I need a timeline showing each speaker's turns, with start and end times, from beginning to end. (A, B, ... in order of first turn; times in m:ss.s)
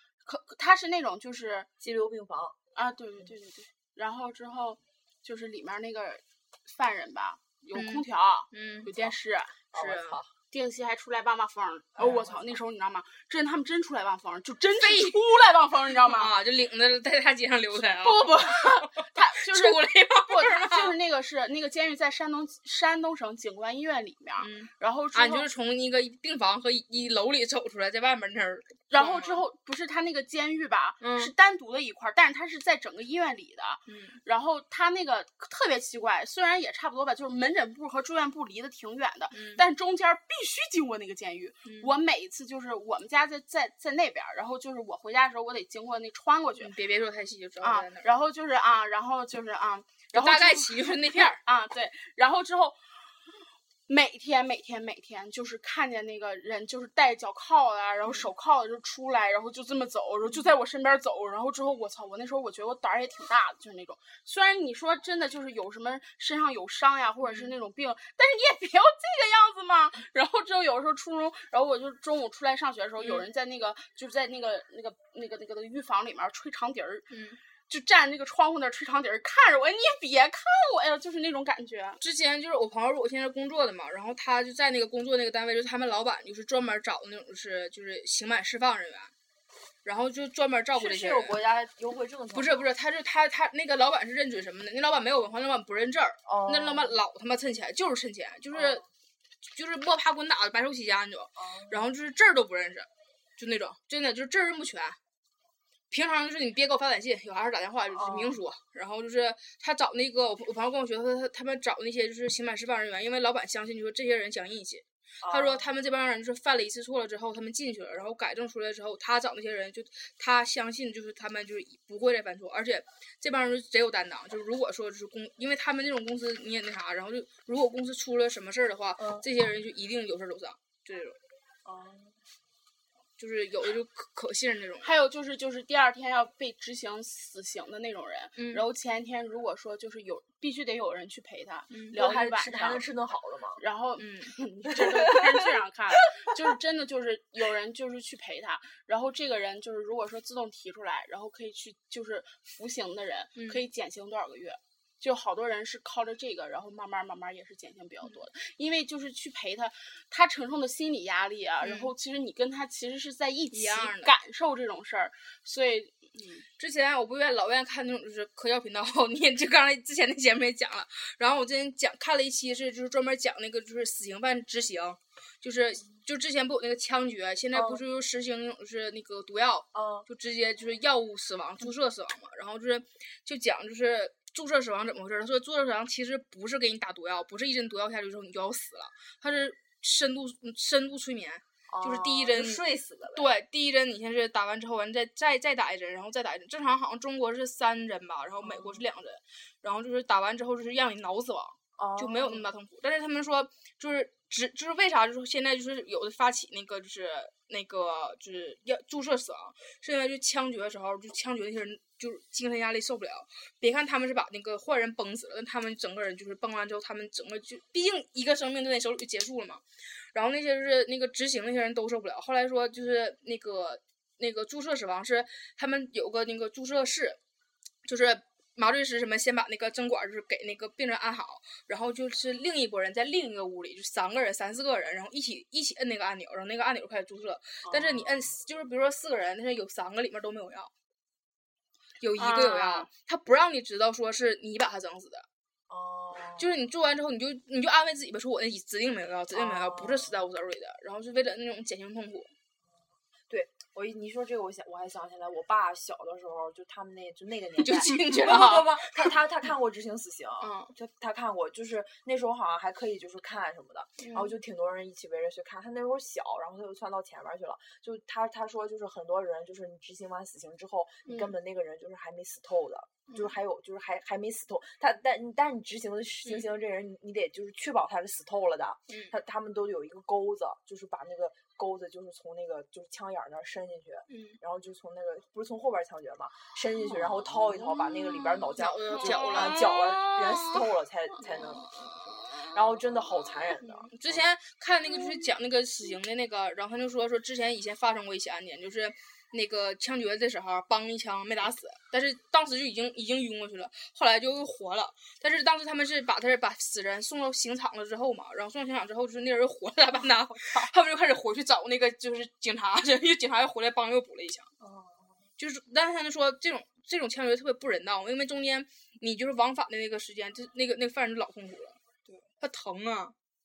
0:00.2-0:01.7 A
0:01.8-0:02.6 B
0:02.8-0:09.6 A
0:07.7-0:09.0 C
0:09.7-0:10.2 C
0:09.7-0:10.3 B
0:10.5-0:16.3 A
0:12.0-0:12.6 B
0:14.7-0:15.2 C
0:16.0-0:20.9 C
0:17.8-0:25.5 A
0:24.4-0:29.5 C
0:28.9-0:46.7 A
0:31.0-0:31.3 C
0:33.9-0:34.2 C
0:39.3-0:39.6 C
0:41.6-0:41.9 C
0:46.6-0:48.1 C
0:47.6-0:52.8 A
0:50.1-0:51.4 C
0:53.9-1:17.1 A
1:07.2-1:07.5 C
1:13.0-1:13.3 C
1:17.1-1:17.4 C
1:17.7-1:22.0 A
1:22.0-1:29.1 C
1:29.8-1:31.4 C
1:30.7-1:32.6 B
1:32.3-1:38.8 C
1:36.3-1:37.0 B
1:38.5-1:38.8 B
1:39.5-1:45.0 C
1:41.4-1:41.9 B
1:45.9-2:11.2 C
1:47.9-1:48.4 B
1:55.2-1:55.7 B
2:09.0-2:09.3 B
2:11.7-2:12.2 B
2:13.2-2:14.9 C
2:14.8-2:22.9 A
2:18.4-2:18.6 C
2:21.7-2:22.0 C
2:21.9-2:23.6 B
2:23.6-2:46.5 A
2:24.0-2:24.3 C
2:24.8-2:25.4 B
2:33.4-2:33.7 C
2:41.6-2:41.9 C
2:43.5-2:44.2 C
2:46.6-3:12.6 C
2:57.5-2:57.8 B
2:59.7-3:00.1 B
3:11.7-3:13.3 B
3:13.1-3:47.2 C
3:18.4-3:18.9 B
3:21.8-3:22.5 B
3:47.8-4:00.7 C
3:57.6-3:58.3 B
4:02.0-4:05.3 C
4:02.2-4:02.9 A
4:05.7-4:06.6 B
4:06.4-4:12.3 C
4:09.3-4:10.2 B
4:13.3-4:51.8 B
4:17.6-4:19.2 C
4:20.4-4:20.7 C
4:24.0-4:24.4 C
4:33.1-4:33.4 C
4:38.9-4:39.1 C
4:44.1-4:44.4 C
4:46.9-4:50.7 C
4:48.6-4:49.7 A
4:51.2-5:14.5 C
4:52.5-4:54.3 B
5:10.4-5:10.7 B
5:14.6-5:15.2 B
5:15.4-5:21.8 C
5:22.4-5:23.1 C